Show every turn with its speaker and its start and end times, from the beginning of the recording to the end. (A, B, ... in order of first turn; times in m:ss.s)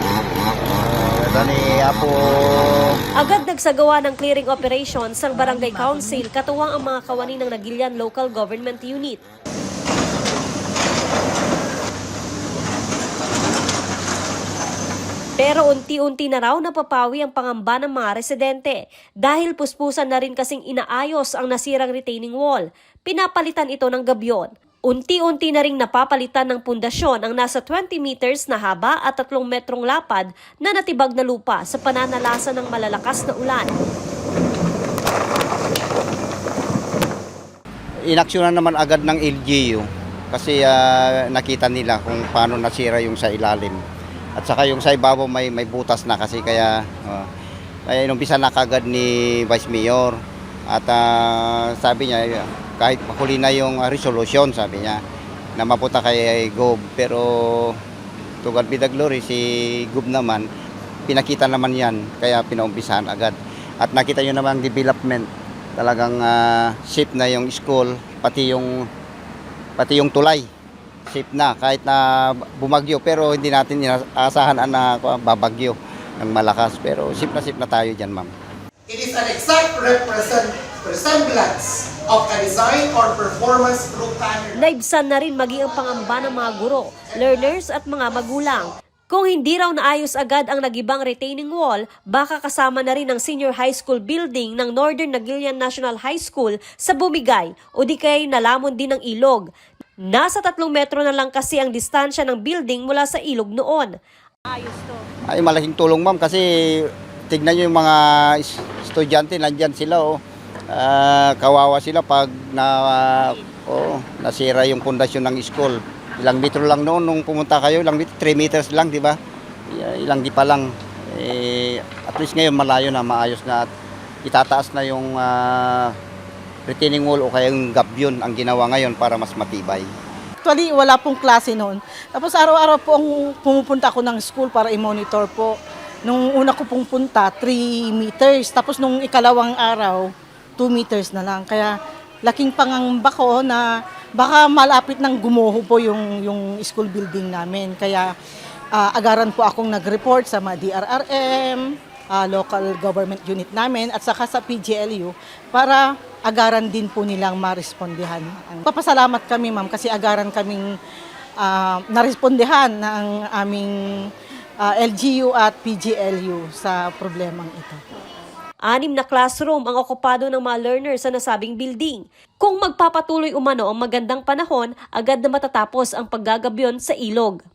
0:00.7-0:03.0 A
0:03.1-0:09.2 B
0:15.4-0:33.7 B
0:38.1-0:43.8 A
0:44.4-0:47.3 A
0:47.9-0:55.0 A
0:55.6-0:57.8 A
0:58.4-1:00.4 A
1:01.1-1:08.8 A
1:09.8-1:10.5 A
1:11.1-1:18.3 A
1:18.9-1:24.6 C
1:24.5-1:39.4 B
1:40.0-1:43.9 B
1:44.5-1:45.0 B
1:45.3-1:50.2 A
1:50.7-1:59.2 A
1:59.7-2:03.7 A
2:04.2-2:05.9 A
2:06.7-2:09.8 A
2:10.4-2:15.5 D
2:16.0-2:20.0 D
2:20.6-2:23.6 D
2:24.2-2:28.1 D
2:28.7-2:40.7 D
2:41.4-2:44.1 D
2:44.6-2:47.8 D
2:48.6-2:57.4 B